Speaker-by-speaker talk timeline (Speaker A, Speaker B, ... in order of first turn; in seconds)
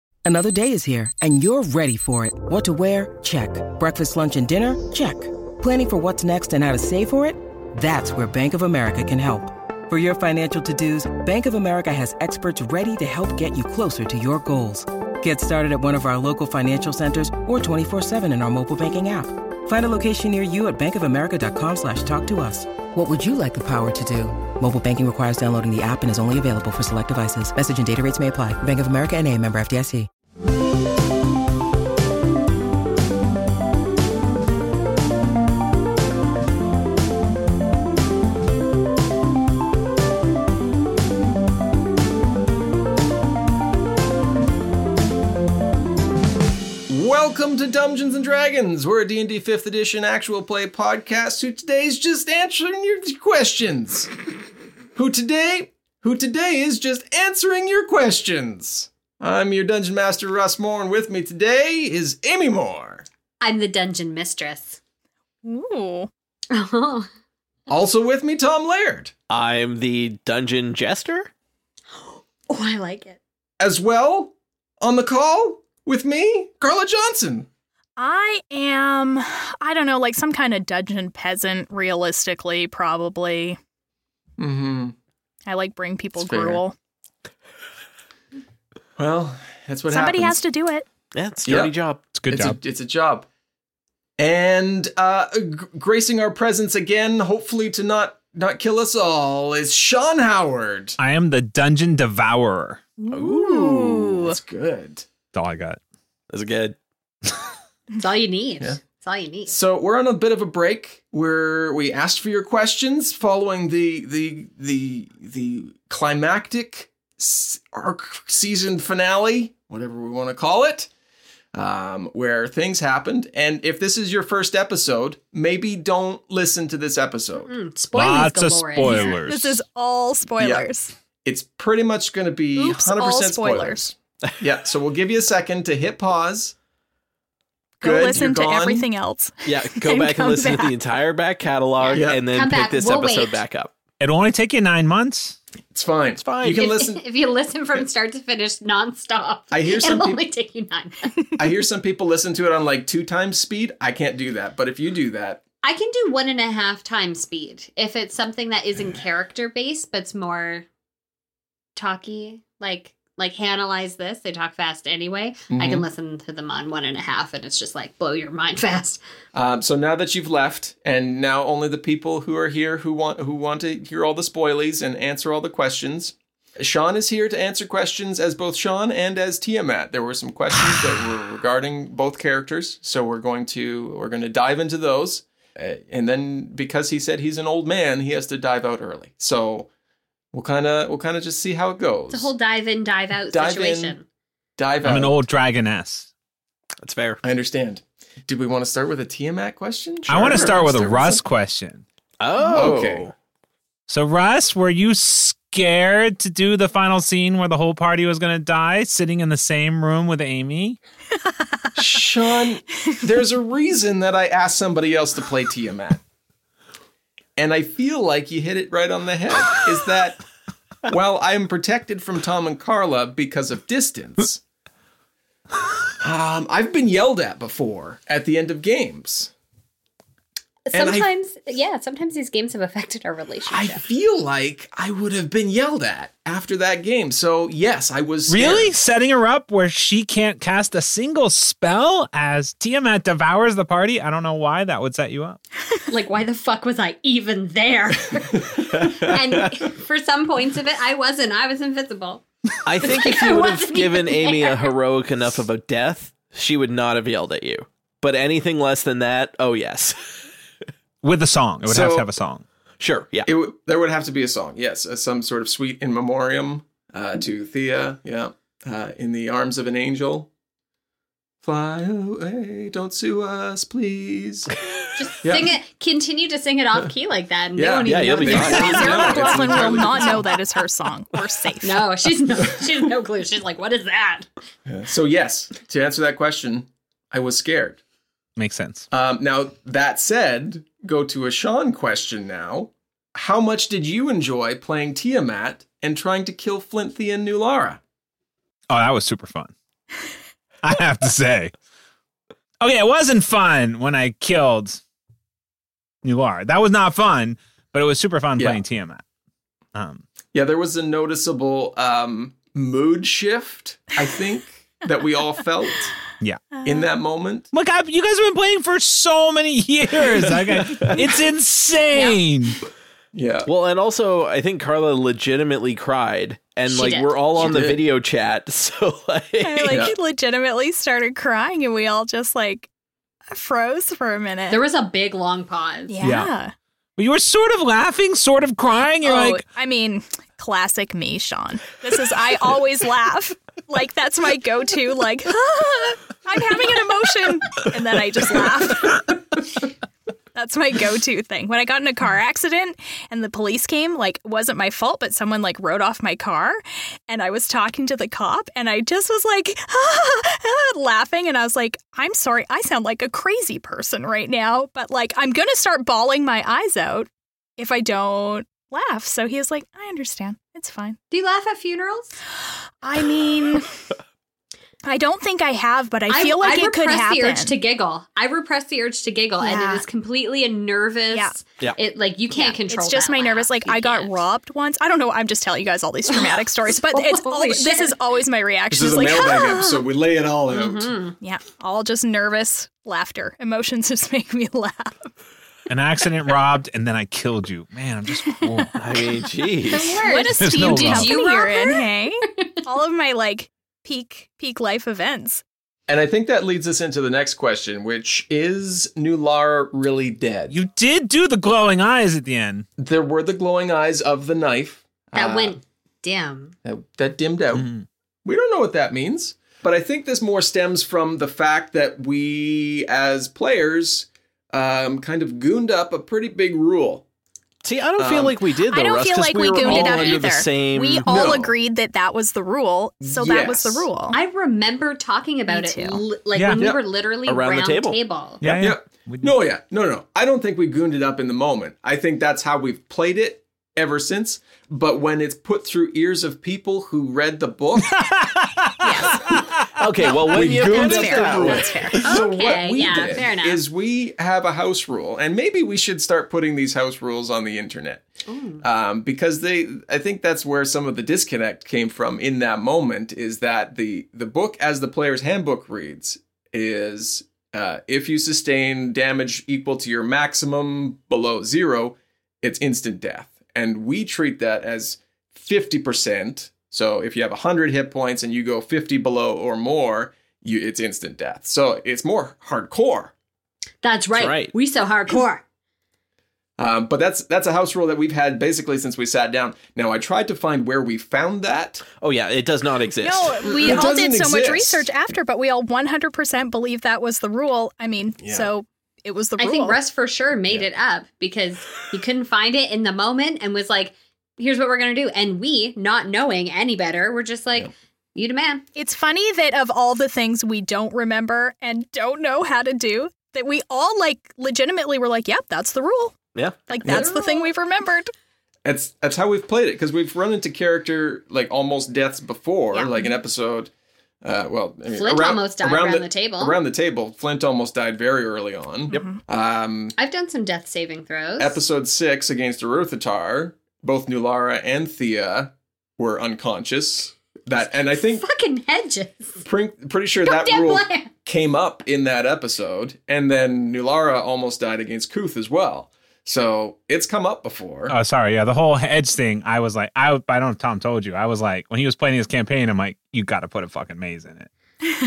Speaker A: 0.2-30.1
Speaker B: 46.9-54.1, 55.0-63.0, 67.7-69.1, 73.6-77.5, 84.4-85.0, 86.2-86.6, 89.0-90.4, 91.5-91.8, 92.3-93.3, 94.2-101.0, 103.2-105.1, 109.5-120.9, 121.5-127.5, 130.4-130.7, 131.2-136.6, 137.8-138.9, 141.9-142.2, 145.7-147.0, 149.5-150.2, 151.4-155.4, 165.5-165.8, 169.3-189.7, 190.3-192.3, 193.3-194.0, 194.6-195.2, 197.2-201.2, 202.5-203.1, 211.8-216.0, 217.4-220.2, 220.9-224.4, 226.0-229.3, 230.7-231.1, 233.5-238.7, 261.6-262.1, 263.3-270.3, 271.4-274.5, 275.2-275.6, 277.6-280.4, 284.7-287.8, 288.9-297.8, 310.3-316.0, 316.6-317.5, 323.1-323.5, 327.4-327.8, 329.7-330.0, 388.7-390.9, 405.9-410.6, 412.8-415.6, 416.6-417.7, 418.2-427.1, 428.0-428.4, 429.6-430.2, 431.1-431.6, 433.0-433.9, 436.6-436.8, 438.4-448.0, 450.3-458.1, 458.6-483.1, 486.6-491.9, 493.4-494.9, 498.2-498.5, 516.8-517.5, 518.6-523.7, 524.2-530.0, 531.4-538.2, 539.4-548.0
Speaker C: 63.4-64.8, 66.5-67.1, 72.0-73.2, 108.0-109.5, 127.4-129.2, 141.8-143.4, 146.5-151.1, 155.6-160.7, 161.8-169.0, 192.1-194.0, 230.7-233.8, 245.9-252.2, 252.8-254.8, 275.0-280.0, 281.6-284.3, 321.9-322.2, 326.7-327.6, 334.5-336.0, 371.1-372.1, 376.1-384.2, 386.1-387.9, 390.5-391.2, 399.6-401.9, 415.1-416.5, 434.1-438.4, 452.0-453.6, 458.3-458.6, 483.8-485.4, 499.4-508.6, 524.9-526.6, 530.0-531.6, 538.1-539.4, 540.2-541.1
Speaker D: 65.4-66.1, 78.0-83.6, 85.5-86.8, 89.9-90.9, 103.0-104.4, 128.8-130.9, 132.6-133.9, 137.8-140.8, 278.6-281.9, 329.4-332.7, 333.3-334.6, 335.9-336.5, 339.0-349.7, 350.4-371.0, 372.8-373.7, 374.9-377.6, 379.4-379.8, 382.3-389.9, 391.2-395.1, 399.9-405.4, 428.6-434.2, 435.5-436.0, 448.8-449.2, 450.0-452.1, 493.0-499.8, 508.8-518.1, 528.9-529.2
Speaker E: 69.3-71.3, 91.1-92.1, 106.3-106.8, 139.4-143.7, 146.2-146.6, 196.8-197.2, 202.2-203.1, 252.7-260.2, 262.8-263.3, 277.8-279.1, 323.5-329.9, 398.8-400.0, 427.6-431.1, 437.3-438.0, 449.8-451.9, 484.1-484.5, 492.0-493.4, 516.3-517.1
Speaker F: 92.2-92.6, 101.0-102.8, 105.3-105.8, 127.9-129.6, 144.0-145.4, 194.8-196.1, 200.1-201.8, 203.9-210.8, 238.3-245.4, 261.0-262.4, 288.4-288.9, 298.7-299.5, 300.6-301.5, 302.6-304.8, 306.0-309.0, 309.8-310.0, 316.2-316.5, 317.5-322.6, 336.0-336.3, 337.0-339.4, 395.7-398.8, 400.4-401.1, 410.5-412.7, 417.5-417.9, 436.4-436.6, 438.4-439.3, 448.0-448.6, 547.9-554.5